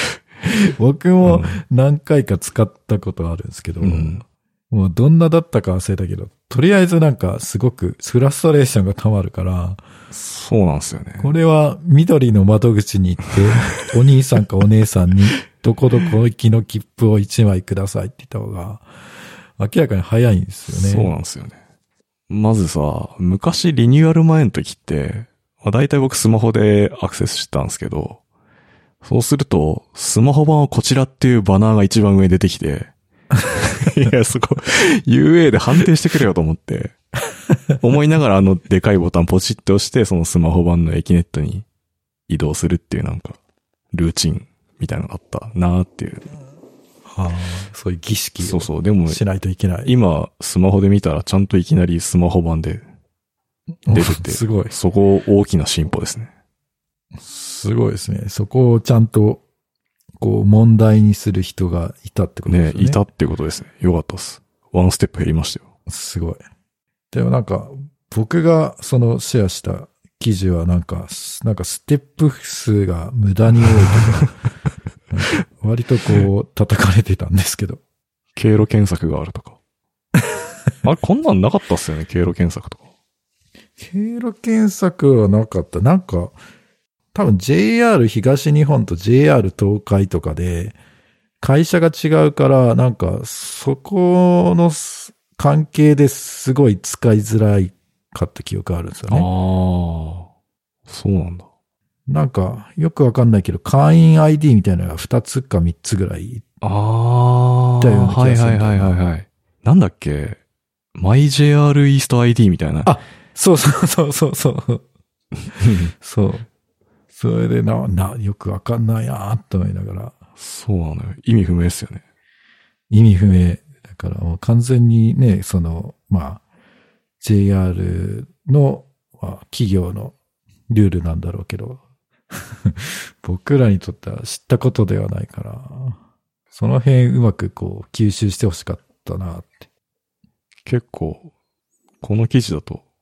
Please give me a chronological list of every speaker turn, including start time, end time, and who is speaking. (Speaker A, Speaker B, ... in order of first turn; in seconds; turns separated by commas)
Speaker A: 0.4-9.8, Speaker B: 1.2-1.6, Speaker B: 3.8-4.2, Speaker B: 10.1-11.3, Speaker A: 11.2-18.9, Speaker A: 19.6-21.1, Speaker B: 20.7-21.6, Speaker B: 22.3-28.2, Speaker B: 29.0-32.9, Speaker B: 33.5-37.0, Speaker B: 37.8-41.6, Speaker B: 42.3-43.4, Speaker B: 43.9-46.3, Speaker A: 47.0-49.9, Speaker B: 48.4-49.2, Speaker B: 49.9-52.8, Speaker A: 53.9-54.7, Speaker B: 53.9-56.3, Speaker A: 57.2-59.4, Speaker A: 60.2-63.0, Speaker B: 62.5-65.6, Speaker A: 65.9-66.4, Speaker A: 67.1-74.3, Speaker A: 75.1-77.8, Speaker B: 78.3-79.6, Speaker B: 80.8-82.8, Speaker A: 83.8-86.4, Speaker A: 87.1-90.8, Speaker A: 91.4-99.3, Speaker B: 99.1-100.3, Speaker B: 100.9-101.5, Speaker A: 102.1-106.4, Speaker B: 106.6-110.4, Speaker A: 107.8-109.0, Speaker B: 110.9-112.9, Speaker A: 112.8-114.8, Speaker B: 115.6-115.9, Speaker A: 116.0-116.5, Speaker A: 117.1-120.1, Speaker B: 120.4-122.0, Speaker A: 122.9-126.4, Speaker A: 127.2-130.1, Speaker A: 130.7-136.0, Speaker A: 136.5-139.6, Speaker B: 140.6-141.3, Speaker B: 142.0-142.8